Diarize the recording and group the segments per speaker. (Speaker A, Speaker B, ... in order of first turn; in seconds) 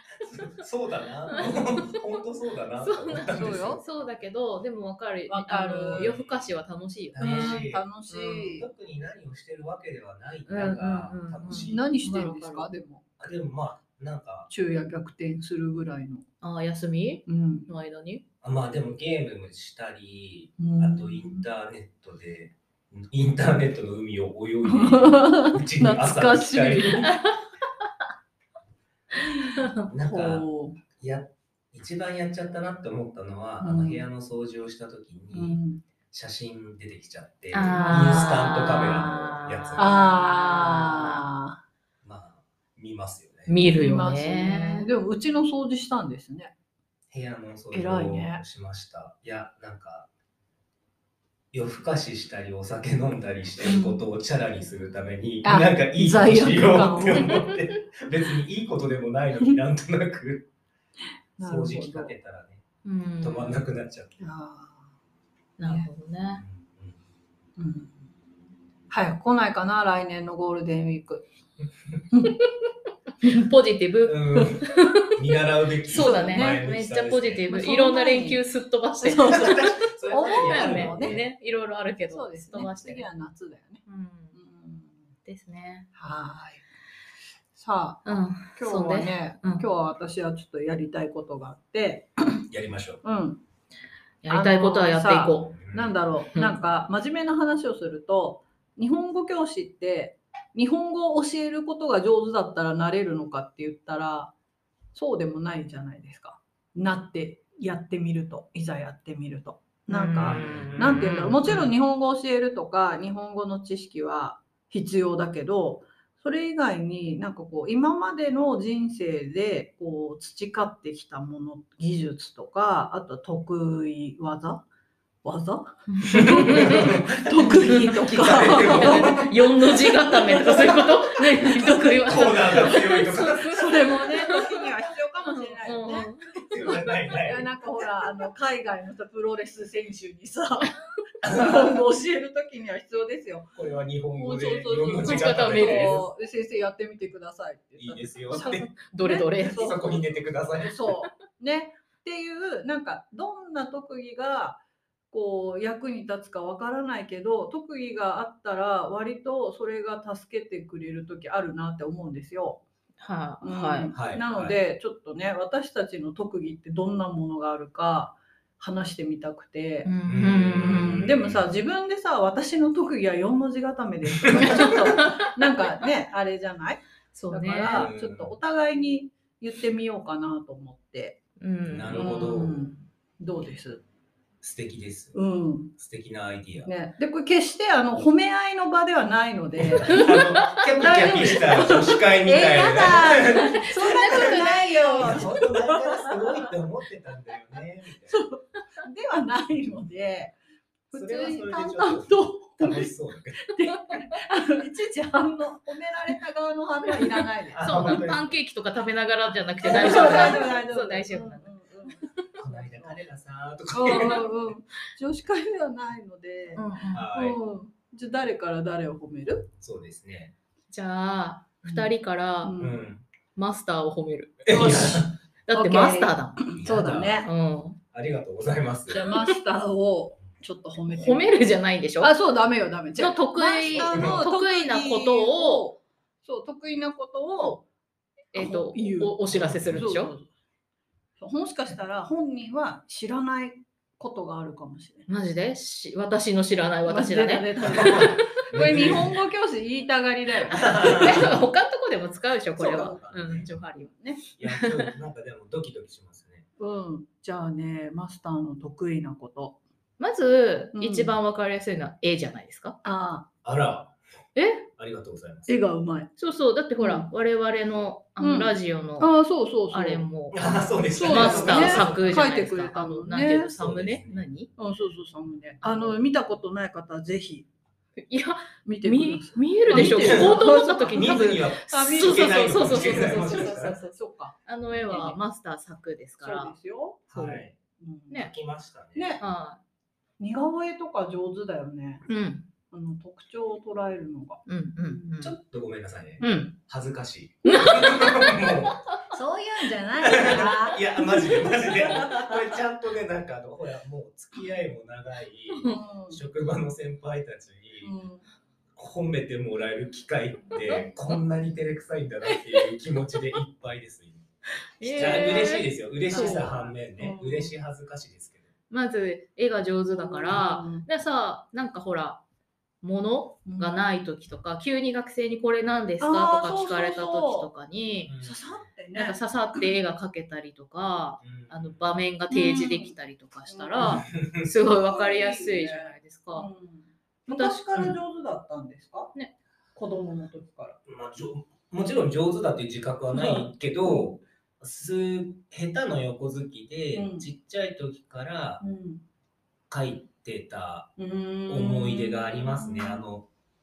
Speaker A: 0.2-3.9, 5.9-6.5, 7.1-7.8, 8.5-11.8, 13.2-14.5, 18.4-27.2, 29.9-35.6, 36.1-40.0, 42.0-43.5, 47.1-50.1, 51.5-60.5, 61.4-62.6, 63.2-64.2, 66.4-67.0, 74.1-77.4, 79.3-81.2, 92.5-93.0, 95.5-95.9, 110.2-111.7, 126.1-133.9, 136.5-137.5, 141.2-141.8, 143.6-146.0, 147.8-148.7, 149.6-150.9, 163.9-164.6, 170.1-171.5, 174.2-174.8, 177.6-178.3, 181.7-182.7, 184.4-185.2, 185.8-186.7, 189.6-198.2, 200.9-203.6, 207.5-208.4, 209.7-210.2, 212.4-214.3, 216.9-217.4, 219.6-220.3, 222.6-223.0, 224.4-225.1, 226.6-227.3, 227.9-229.0, 233.7-234.3, 239.3-240.0, 247.7-249.2, 250.6-251.3, 253.1-253.5, 254.4-256.5, 263.4-264.0, 264.8-265.5, 270.3-272.3, 273.5-274.3, 279.7-283.8, 287.1-287.6, 288.1-289.2, 295.2-298.8, 300.0-307.9, 308.8-314.2, 315.0-318.5, 328.1-328.7, 331.2-331.9, 333.8-334.5, 340.9-348.6, 349.7-350.9, 351.5-353.3
Speaker B: 1.3-2.0, 2.8-8.6, 10.5-12.7, 16.4-18.2, 37.5-41.2, 43.5-44.9, 57.3-57.6, 62.9-63.6, 65.6-66.4, 73.2-75.2, 75.9-79.7, 80.2-83.0, 83.9-84.3, 85.3-85.9, 88.0-89.7, 94.2-95.5, 109.9-111.5, 125.9-127.0, 128.5-134.5, 135.3-136.4, 145.1-146.0, 148.3-149.8, 163.0-163.9, 169.8-171.1, 174.6-175.2, 177.1-177.9, 181.4-182.4, 189.9-190.5, 194.5-194.8, 207.6-211.5, 216.6-217.1, 220.7-222.6, 223.4-224.9, 225.5-226.5, 227.2-227.8, 230.9-232.1, 233.0-235.7, 238.3-240.1, 245.1-248.2, 250.7-253.9, 254.4-254.9, 260.0-262.8, 264.4-264.7, 266.2-269.1, 269.7-274.5, 278.1-286.5, 287.1-287.4, 289.2-289.6, 292.1-292.5, 294.5-295.4, 296.2-296.6, 297.4-298.4, 305.5-305.8, 314.8-316.6, 318.7-322.2, 322.8-328.1, 328.9-336.5, 337.3-337.9
Speaker C: 3.3-3.8, 5.3-6.2, 7.2-8.7, 11.5-13.0, 14.5-16.2, 17.3-17.7, 20.6-21.5, 24.6-27.2, 29.2-30.8, 33.6-34.1, 35.3-35.8, 37.5-38.9, 39.8-41.6, 43.8-46.5, 47.7-48.4, 53.6-54.0, 55.4-57.4, 61.4-62.1, 64.2-65.0, 65.6-65.9, 67.6-68.1, 68.9-71.2, 72.1-72.4, 75.9-76.7, 77.5-78.4, 79.0-81.2, 82.1-85.1, 86.0-86.7, 87.5-92.5, 93.0-93.4, 94.3-104.3, 104.9-124.7, 125.2-130.8, 132.5-132.8, 133.5-143.6, 144.2-150.1, 150.6-154.6, 155.1-162.6, 163.4-169.9, 170.6-181.2, 181.9-183.8, 185.1-185.7, 186.6-196.5, 198.1-200.4, 200.9-208.1, 209.6-213.0, 213.7-219.5, 221.6-222.8, 224.5-227.3, 228.9-231.4, 232.0-237.6, 238.3-239.2, 239.7-240.3, 241.2-245.1, 246.9-251.3, 252.6-253.2, 253.8-254.2, 256.6-259.6, 260.7-261.2, 262.8-263.3, 265.5-266.1, 266.8-267.1, 268.2-270.1, 271.0-273.6, 274.6-277.5, 278.6-285.2, 286.2-287.1, 287.8-288.2, 288.9-289.2, 290.2-292.1, 292.7-295.1, 299.1-302.6, 305.6-306.2, 307.8-308.2, 314.8-315.5, 316.1-317.5, 319.9-320.9, 323.5-323.9, 326.0-327.5, 328.2-329.2, 332.3-332.9, 333.5-334.1, 334.8-339.1, 339.7-340.8, 343.1-344.1, 346.9-347.3, 348.6-349.0, 351.0-353.1